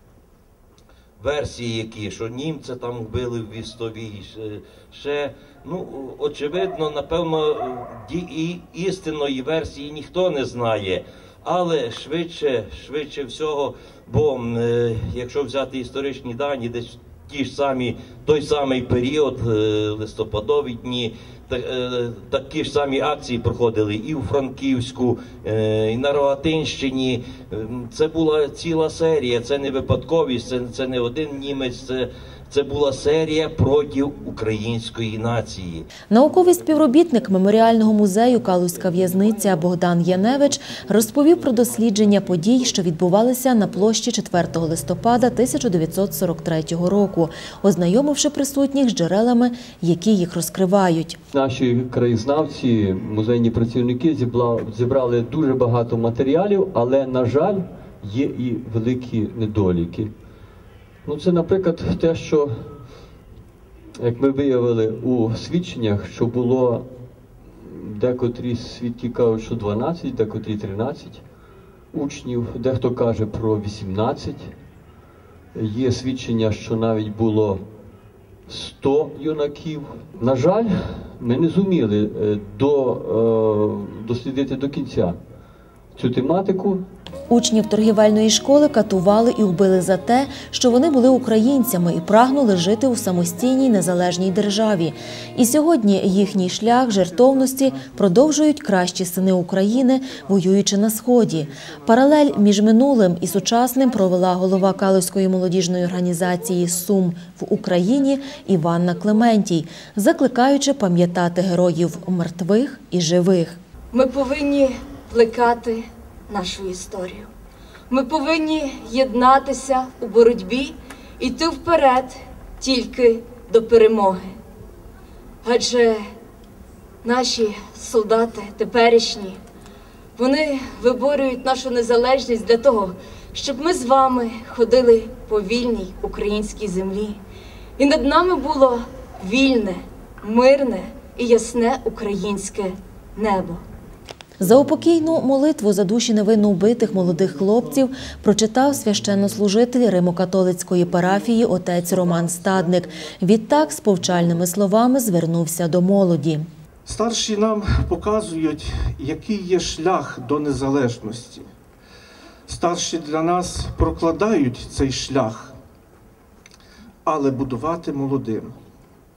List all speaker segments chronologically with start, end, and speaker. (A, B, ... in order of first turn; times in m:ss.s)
0:01.2-0:35.9 A
0:36.1-0:51.2 B
0:38.8-0:42.8 C
0:51.3-1:00.1 C
1:01.0-1:02.7 C
1:04.0-1:06.9 C
1:07.5-1:11.2 C
1:11.9-1:14.5 C
1:15.5-1:17.7 C
1:18.5-1:25.2 C
1:26.0-1:26.8 C
1:27.3-1:53.6 B
1:36.1-1:38.4 D
1:39.2-1:42.5 D
1:44.3-1:44.6 E
1:53.9-1:57.3 E
1:57.9-2:04.3 E
2:05.4-2:06.0 E
2:07.0-2:09.4 E
2:10.2-2:17.2 E
2:17.8-2:23.6 E
2:24.4-2:36.5 B
2:30.9-2:34.4 D
2:36.8-2:41.5 D
2:42.5-2:45.6 D
2:47.1-2:48.6 D